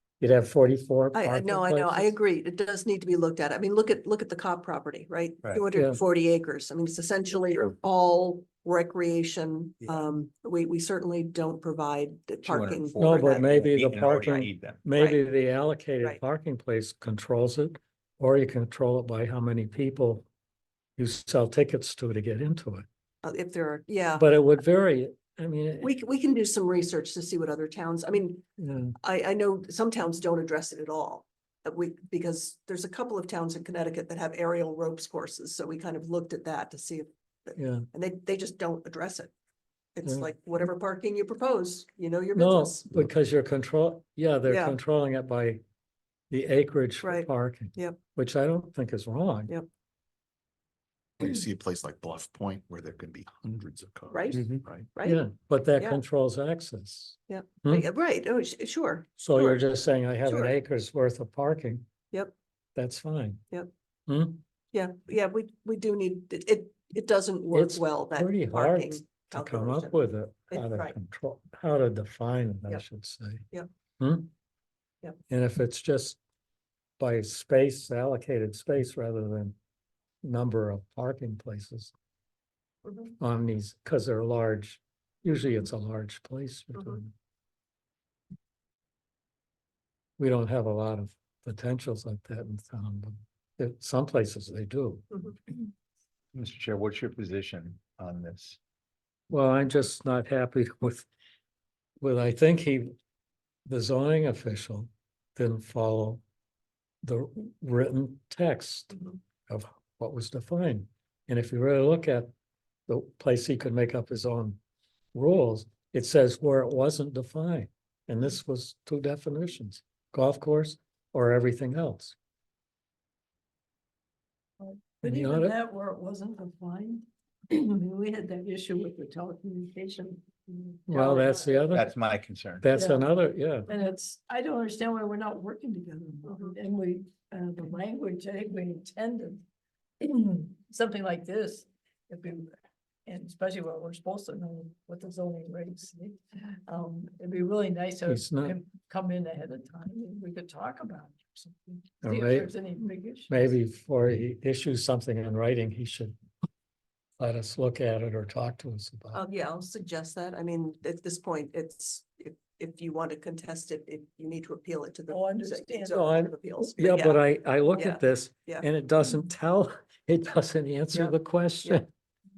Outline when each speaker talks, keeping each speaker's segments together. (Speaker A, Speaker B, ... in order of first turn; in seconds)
Speaker A: 0.2-2.1, 5.7-6.0, 13.0-20.2, 21.0-22.8, 24.2-25.9, 28.6-28.9, 37.6-37.9, 40.0-40.3, 42.3-45.6, 46.3-49.5, 55.0-57.9, 59.2-61.9, 62.7-63.4, 64.1-64.4, 67.5-73.4, 74.0-74.3, 75.3-76.2, 77.0-79.5, 80.2-81.9, 83.2-87.1, 90.2-95.0, 99.3-101.1, 102.0-102.9, 103.7-106.2, 107.0-112.3, 112.9-114.6, 115.1-122.2, 125.0-125.6, 130.9-131.9, 132.6-133.7, 148.1-148.6, 152.0-152.5, 153.3-156.2, 157.2-159.2, 165.9-171.9
Speaker B: 1.1-13.6, 14.9-15.2, 23.2-24.3, 25.8-28.4, 29.0-39.3, 40.0-42.9, 44.5-44.8, 47.0-48.0, 54.1-55.2, 57.3-59.6, 60.2-60.5, 64.7-70.0, 70.5-71.0, 82.8-83.1, 95.1-95.3, 159.1-168.7, 170.9-171.8
Speaker C: 12.4-14.8, 96.3-98.6, 131.7-132.7
Speaker D: 51.2-54.9
Speaker E: 124.6-131.8, 132.6-133.1, 133.7-139.4, 140.0-142.5, 143.1-153.5, 165.1-166.2